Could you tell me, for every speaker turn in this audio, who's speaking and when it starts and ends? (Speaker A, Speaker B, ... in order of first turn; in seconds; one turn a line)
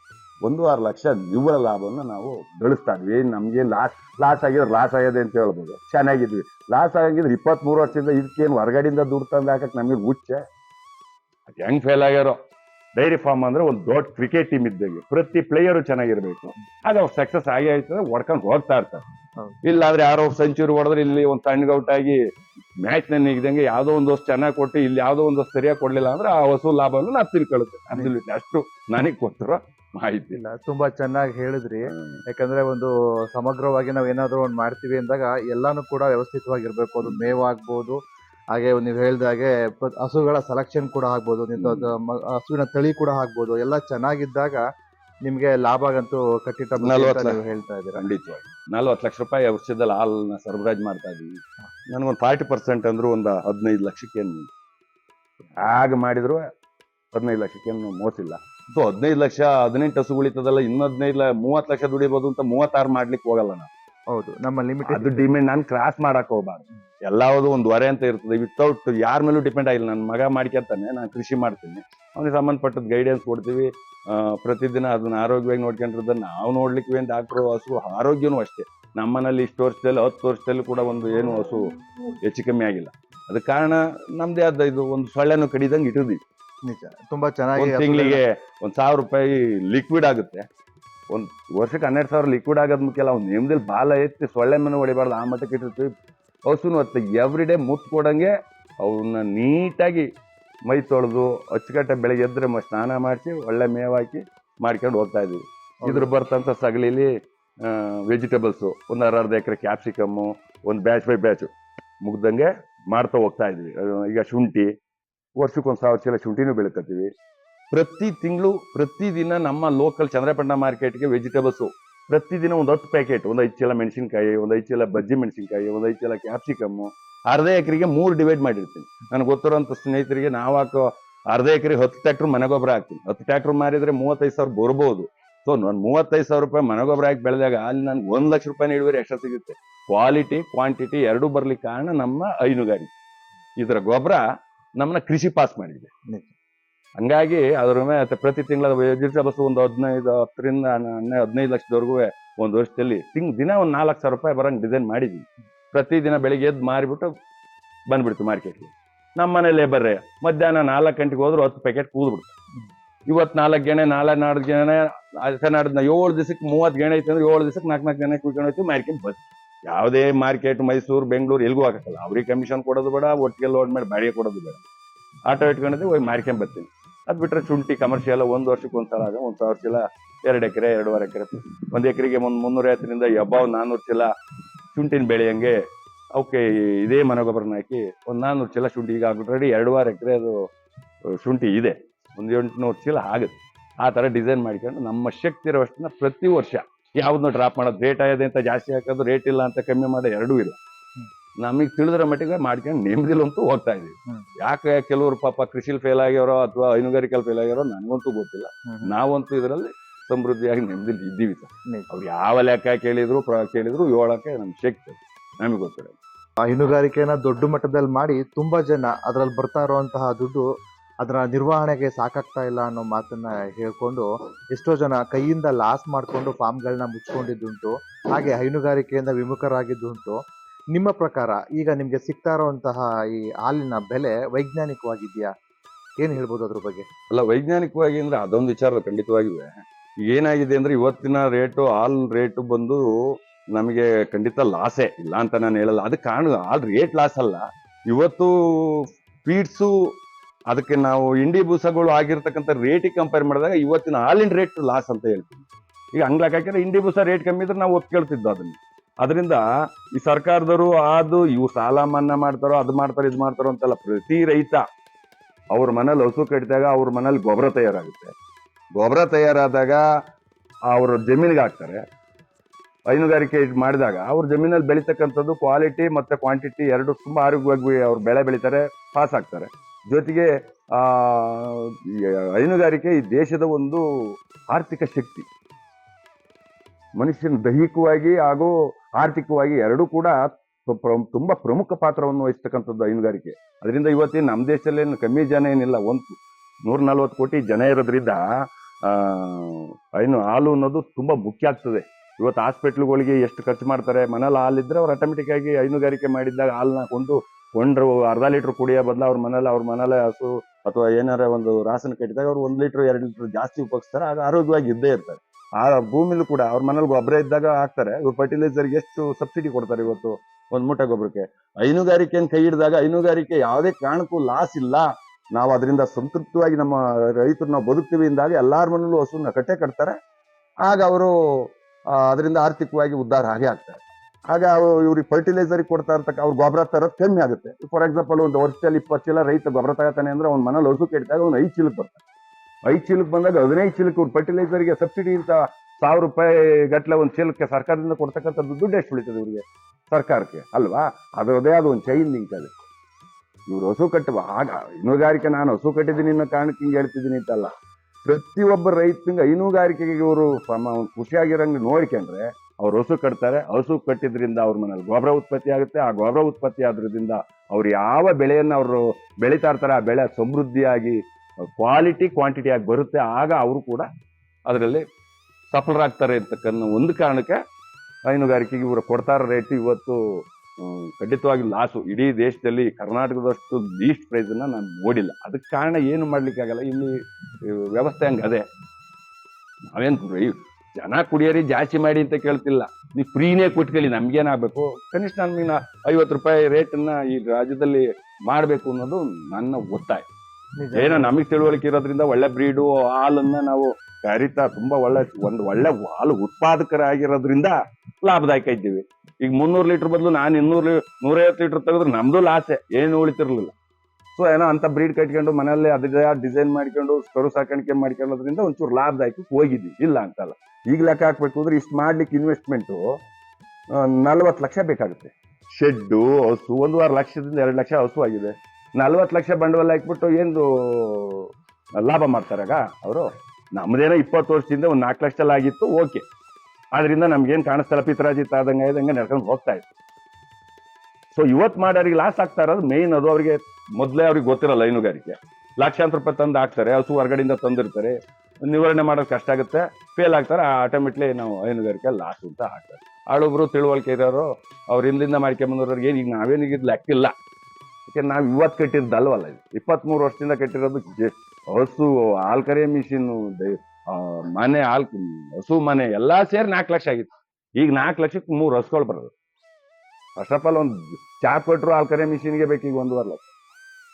Speaker A: 0.4-10.4
Speaker A: 11.5-12.4
Speaker A: 12.9-19.0
Speaker A: 19.6-22.2
Speaker A: 22.8-30.4
Speaker B: 30.4-38.0
Speaker A: 31.9-32.2
Speaker B: 38.5-44.6
Speaker A: 41.5-41.9
Speaker B: 45.2-48.0
Speaker A: 46.8-47.4
Speaker A: 47.9-54.5
Speaker A: 55.6-56.4
Speaker A: 57.1-63.7
Speaker B: 64.1-65.2
Speaker A: 64.9-86.2
Speaker B: 86.7-88.2
Speaker A: 87.5-90.4
Speaker A: 91.1-95.9
Speaker A: 96.5-100.1
Speaker A: 100.7-107.1
Speaker B: 105.8-106.1
Speaker A: 107.6-111.5
Speaker A: 112.0-114.7
Speaker A: 115.4-117.1
Speaker A: 117.7-142.9
Speaker A: 143.6-144.2
Speaker A: 144.8-145.9
Speaker B: 146.1-146.3
Speaker A: 147.0-157.1
Speaker A: 157.9-162.3
Speaker A: 163.1-174.6
Speaker A: 175.3-184.1
Speaker A: 184.7-185.6
Speaker A: 186.1-190.4
Speaker A: 191.1-200.6
Speaker A: 201.4-215.9
Speaker B: 216.4-220.4
Speaker B: 221.0-230.2
Speaker B: 230.7-235.3
Speaker B: 236.0-236.9
Speaker A: 237.1-249.8
Speaker A: 250.5-264.6
Speaker A: 265.5-268.1
Speaker A: 268.8-269.9
Speaker A: 270.7-271.8
Speaker A: 272.9-283.8
Speaker A: 284.5-285.3
Speaker A: 287.0-298.2
Speaker A: 298.8-330.0
Speaker A: 330.6-342.0
Speaker A: 342.6-352.5
Speaker A: 353.5-357.5
Speaker A: 358.0-373.9
Speaker A: 374.5-374.8
Speaker A: 375.5-377.4
Speaker A: 378.1-380.0
Speaker A: 380.6-388.4
Speaker A: 389.7-400.0
Speaker B: 400.6-401.1
Speaker A: 400.8-413.5
Speaker A: 414.1-422.8
Speaker A: 423.7-436.1
Speaker A: 436.7-439.6
Speaker A: 441.1-457.1
Speaker A: 457.9-469.1
Speaker A: 470.1-473.2